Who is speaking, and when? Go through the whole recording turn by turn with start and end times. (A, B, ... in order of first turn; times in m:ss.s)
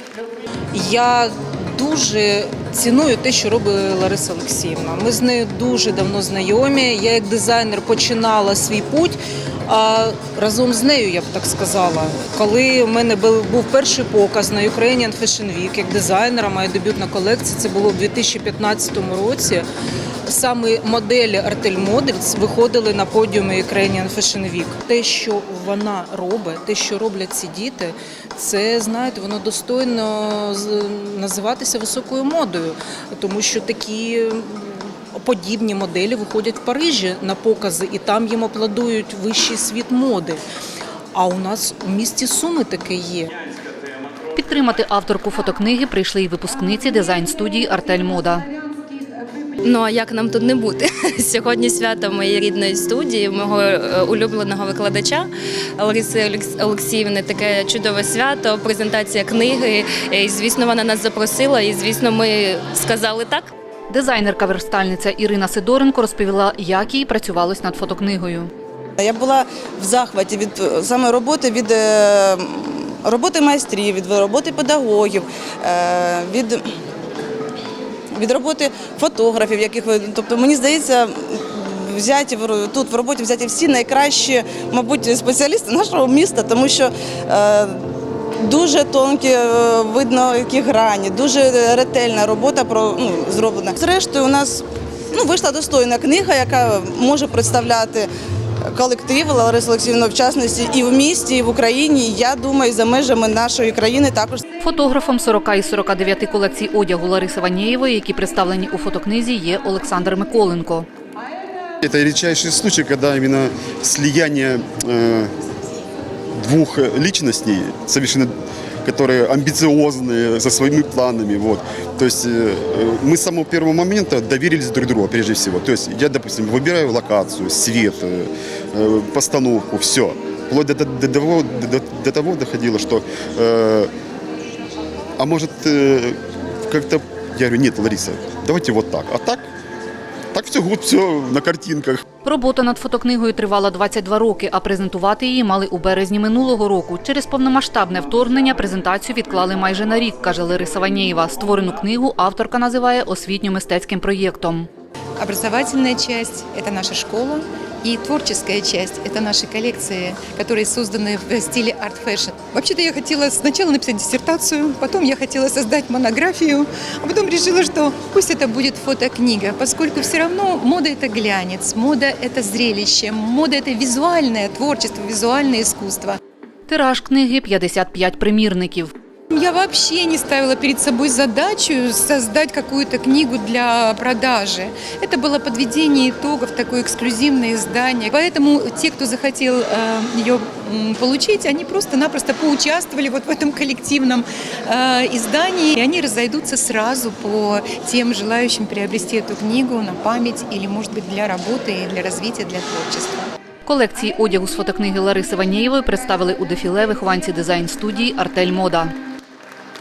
0:00.7-0:19.6 A
0:20.3-0:40.4 A
0:41.1-0:43.3 A
0:44.3-0:48.5 B
0:49.6-1:03.5 C
1:03.9-1:08.5 B
1:09.0-1:16.6 D
1:18.1-1:27.8 D
1:28.4-1:38.1 D
1:38.7-1:44.4 D
1:44.6-1:50.9 B
1:51.8-1:55.3 E
1:56.4-1:58.3 E
1:58.8-2:13.9 E
2:15.2-2:19.5 E
2:20.3-2:22.0 E
2:22.2-2:34.7 B
2:35.2-2:56.2 F
2:56.7-2:58.9 B
2:59.3-3:23.3 F
3:23.6-3:28.9 B